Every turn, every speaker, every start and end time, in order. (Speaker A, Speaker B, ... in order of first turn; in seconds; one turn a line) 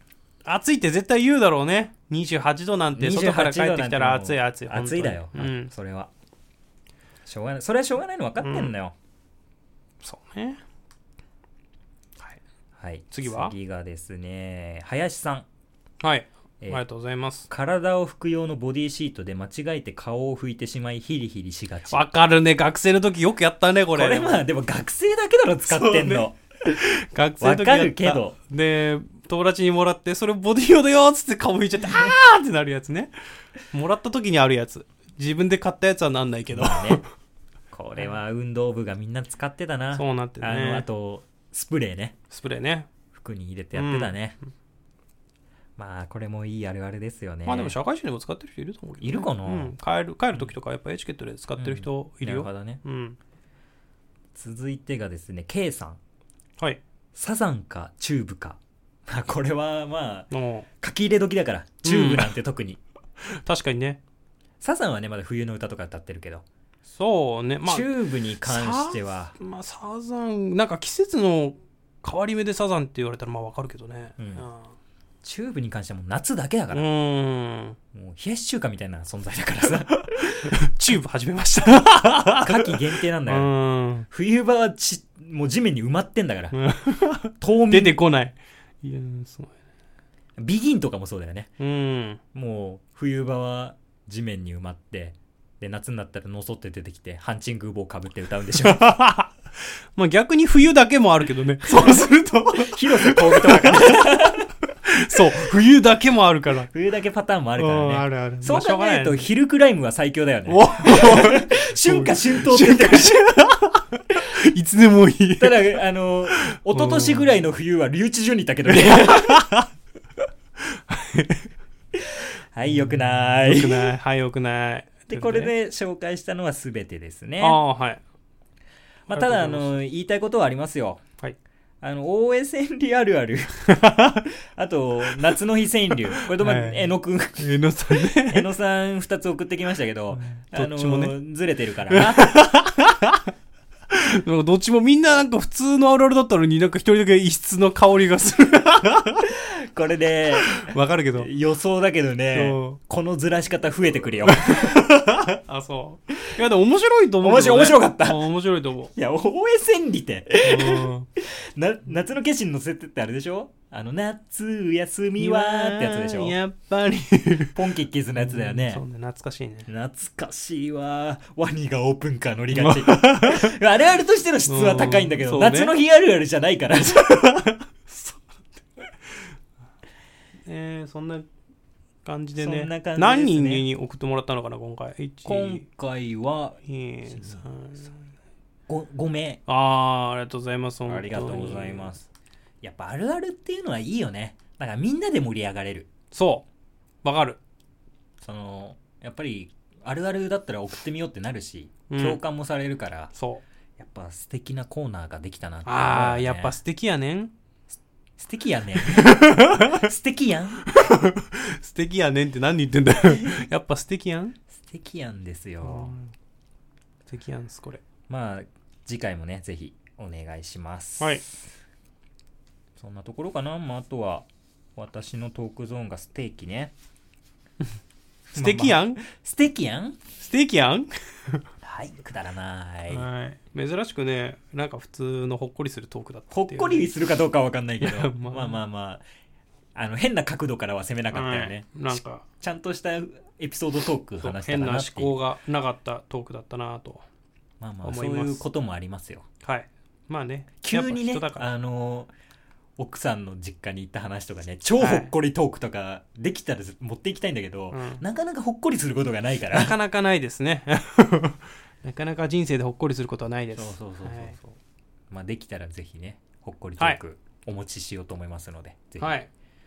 Speaker A: 0.5-5.7
Speaker B: 2.9-6.1
Speaker B: 7.2-8.9
Speaker A: 8.4-8.7
Speaker A: 10.0-10.6
Speaker B: 12.8-15.4
Speaker A: 13.1-13.5
Speaker A: 16.0-17.5
Speaker B: 17.5-22.0
Speaker A: 21.9-24.4
Speaker B: 23.9-26.8
Speaker A: 25.7-33.1
Speaker B: 27.4-28.4
Speaker A: 33.7-37.0
Speaker B: 36.5-37.0
Speaker B: 37.7-42.1
Speaker A: 39.9-40.9
Speaker A: 42.3-42.9
Speaker B: 43.1-44.4
Speaker A: 43.7-44.1
Speaker B: 45.8-47.7
Speaker A: 47.4-53.2
Speaker B: 49.0-49.7
Speaker B: 51.6-52.8
Speaker B: 54.3-56.0
Speaker B: 57.1-62.8
Speaker A: 60.3-60.6
Speaker A: 61.8-62.3
Speaker A: 63.2-64.0
Speaker B: 64.6-66.4
Speaker A: 66.8-74.7
Speaker B: 67.6-69.3
Speaker B: 74.2-74.4
Speaker B: 75.2-76.8
Speaker A: 76.7-77.8
Speaker B: 77.9-80.5
Speaker A: 80.5-84.0
Speaker B: 82.4-83.5
Speaker B: 84.1-86.6
Speaker A: 86.5-89.5
Speaker B: 87.4-88.0
Speaker B: 90.4-91.5
Speaker A: 91.6-92.2
Speaker B: 92.3-98.9
Speaker A: 98.6-99.3
Speaker A: 99.9-104.3
Speaker B: 101.8-104.5
Speaker A: 104.8-106.7
Speaker B: 106.7-113.2
Speaker A: 107.6-109.3
Speaker A: 110.5-115.8
Speaker B: 115.4-119.4
Speaker A: 116.5-117.2
Speaker A: 118.7-119.7
Speaker A: 120.7-121.5
Speaker B: 121.9-123.9
Speaker A: 123.0-125.5
Speaker B: 125.1-127.6
Speaker A: 127.4-128.0
Speaker B: 129.1-131.0
Speaker A: 129.1-129.7
Speaker B: 131.8-133.7
Speaker A: 133.7-134.3
Speaker B: 134.6-142.4
Speaker A: 136.2-138.4
Speaker A: 140.1-141.1
Speaker A: 141.9-143.2
Speaker A: 143.9-149.3
Speaker B: 149.3-154.9
Speaker A: 150.6-151.3
Speaker A: 152.3-152.8
Speaker A: 154.3-158.9
Speaker B: 157.2-158.2
Speaker B: 158.9-166.3
Speaker A: 160.4-161.1
Speaker A: 165.2-167.6
Speaker B: 167.5-168.8
Speaker A: 168.2-169.7
Speaker B: 169.7-177.5
Speaker A: 172.5-173.5
Speaker A: 174.5-175.7
Speaker A: 176.8-178.2
Speaker A: 180.4-181.2
Speaker A: 182.0-185.7
Speaker B: 182.4-183.6
Speaker B: 185.2-187.4
Speaker A: 186.7-187.9
Speaker B: 188.7-189.4
Speaker A: 189.5-191.9
Speaker B: 190.9-192.1
Speaker B: 192.6-195.9
Speaker A: 196.1-196.4
Speaker A: 197.0-197.4
Speaker B: 198.2-203.1
Speaker A: 201.9-202.2
Speaker A: 203.1-203.4
Speaker B: 203.8-206.6
Speaker A: 205.6-207.3
Speaker B: 208.2-210.6
Speaker A: 208.9-209.9
Speaker A: 210.7-214.4
Speaker B: 213.1-213.4
Speaker B: 214.5-215.9
Speaker A: 215.6-216.1
Speaker A: 217.1-217.8
Speaker B: 218.1-221.2
Speaker A: 221.0-221.2
Speaker B: 222.8-226.7
Speaker A: 228.3-229.0
Speaker B: 228.3-230.0
Speaker A: 230.2-231.4
Speaker B: 231.6-233.1
Speaker A: 232.9-237.0
Speaker B: 236.3-239.0
Speaker A: 237.8-238.6
Speaker B: 239.7-245.2
Speaker A: 241.1-242.2
Speaker A: 244.2-247.0
Speaker B: 247.6-249.2
Speaker A: 247.8-248.4
Speaker A: 249.4-251.5
Speaker B: 250.6-252.1
Speaker B: 252.8-259.7
Speaker A: 254.8-255.1
Speaker A: 257.7-258.0
Speaker A: 259.5-264.4
Speaker B: 263.5-264.6
Speaker B: 265.1-269.2
Speaker A: 269.0-269.3